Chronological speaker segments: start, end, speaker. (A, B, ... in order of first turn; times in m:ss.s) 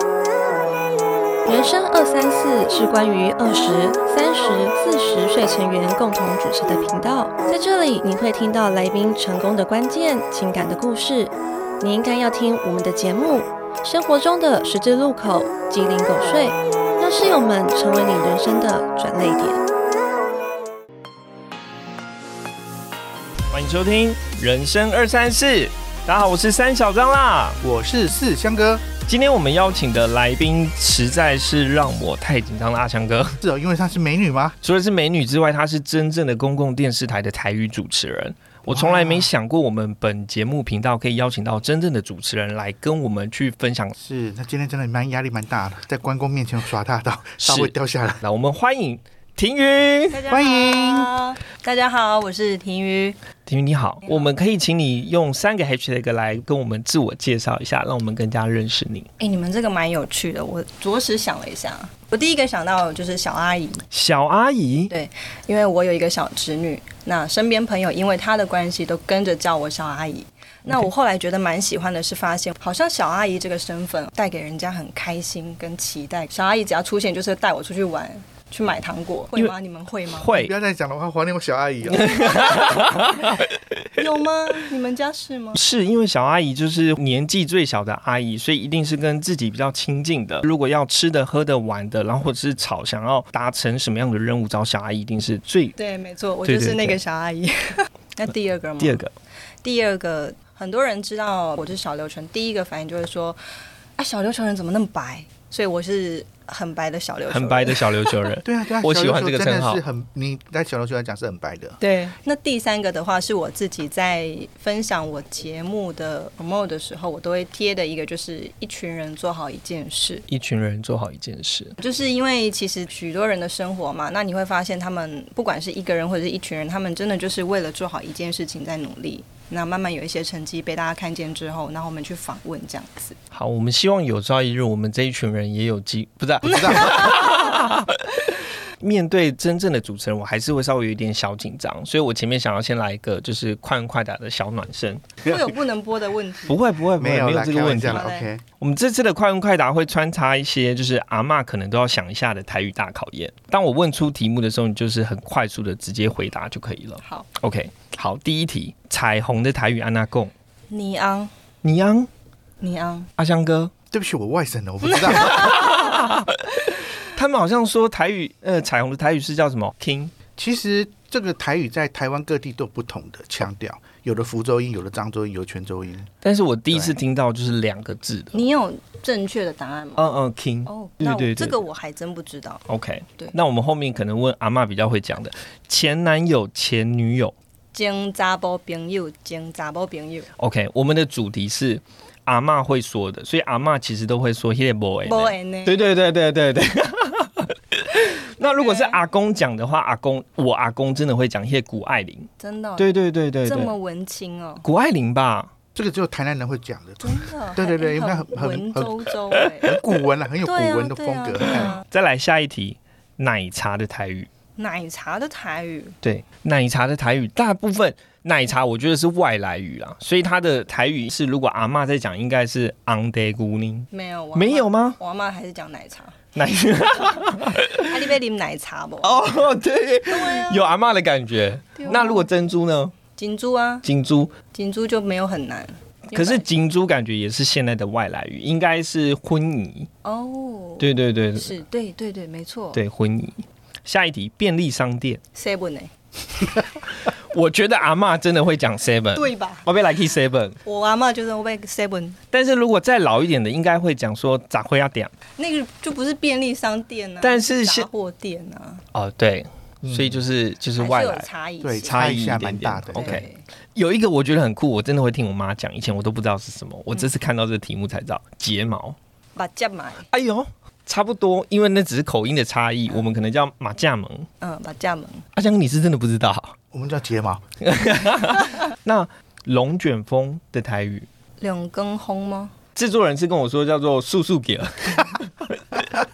0:01.4-0:19.6 A
0:23.5-0:27.6 B
0:27.6-0:28.8 C
0:29.1-0:33.4 B
0:33.4-0:34.6 C
0:34.6-0:43.9 B
0:38.7-0:39.3 C
0:44.0-0:48.2 C
0:47.4-0:50.2 B
0:50.1-0:53.2 D
0:50.3-0:51.1 C
0:53.5-0:59.1 B
0:59.2-1:03.8 D
1:03.9-1:04.9 B
1:04.9-1:20.3 D
1:20.1-1:20.5 B
1:20.3-1:22.2 C
1:21.9-1:24.0 B
1:22.3-1:22.9 D
1:24.0-1:25.6 D
1:25.5-1:35.8 B
1:35.8-1:39.0 D
1:36.4-1:37.0 B
1:38.8-1:39.1 B
1:39.6-1:43.4 D
1:44.0-1:48.3 D
1:47.3-1:49.8 B
1:48.4-1:51.8 C
1:51.8-2:00.3 D
2:00.3-2:01.8 B
2:01.8-2:13.2 D
2:13.3-2:25.3 B
2:16.5-2:17.0 C
2:16.5-2:17.6 D
2:25.2-2:26.6 D
2:26.5-2:40.3 B
2:27.0-2:28.4 C
2:27.8-2:28.2 D
2:40.7-2:41.3 D
2:41.6-2:42.1 B
2:42.6-2:43.1 D
2:43.2-2:43.7 B
2:43.9-2:45.5 C
2:45.2-2:50.1 B
2:45.3-2:45.8 D
2:50.4-2:56.1 C
2:56.2-2:58.4 B
2:56.7-2:57.0 C
2:58.3-3:00.1 D
3:00.0-3:01.6 B
3:00.7-3:02.7 D
3:02.7-3:07.4 B
3:07.7-3:10.3 D
3:10.4-3:23.7 B
3:15.1-3:15.8 D
3:18.4-3:19.0 D
3:22.4-3:22.9 D
3:23.4-3:24.7 D
3:24.6-3:25.5 B
3:25.8-3:29.0 C
3:27.0-3:29.8 D
3:29.6-3:31.8 C
3:30.4-3:31.8 D
3:31.4-3:34.3 B
3:34.6-3:36.0 D
3:36.0-3:45.0 B
3:43.9-3:46.2 D
3:46.4-3:47.9 B
3:47.1-3:49.3 D
3:49.0-3:53.0 B
3:50.1-3:50.8 D
3:51.8-3:52.3 D
3:53.1-3:53.9 D
3:53.8-3:54.4 B
3:54.4-3:56.4 D
3:56.1-3:59.9 B
4:00.0-4:02.8 D
4:00.8-4:01.6 B
4:02.7-4:05.2 B
4:05.4-4:05.9 D
4:07.0-4:10.6 B
4:09.2-4:09.7 D
4:10.6-4:12.2 D
4:12.3-4:15.1 B
4:15.4-4:18.8 D
4:17.2-4:17.9 B
4:18.9-4:21.3 B
4:19.8-4:20.2 C
4:20.8-4:22.0 D
4:21.6-4:23.2 C
4:21.8-4:29.0 B
4:23.0-4:23.4 D
4:29.4-4:30.1 D
4:30.1-4:34.3 B
4:34.4-4:35.3 D
4:35.4-4:36.6 B
4:36.7-4:37.4 C
4:37.6-4:41.1 B
4:41.4-4:42.5 D
4:42.8-4:45.9 B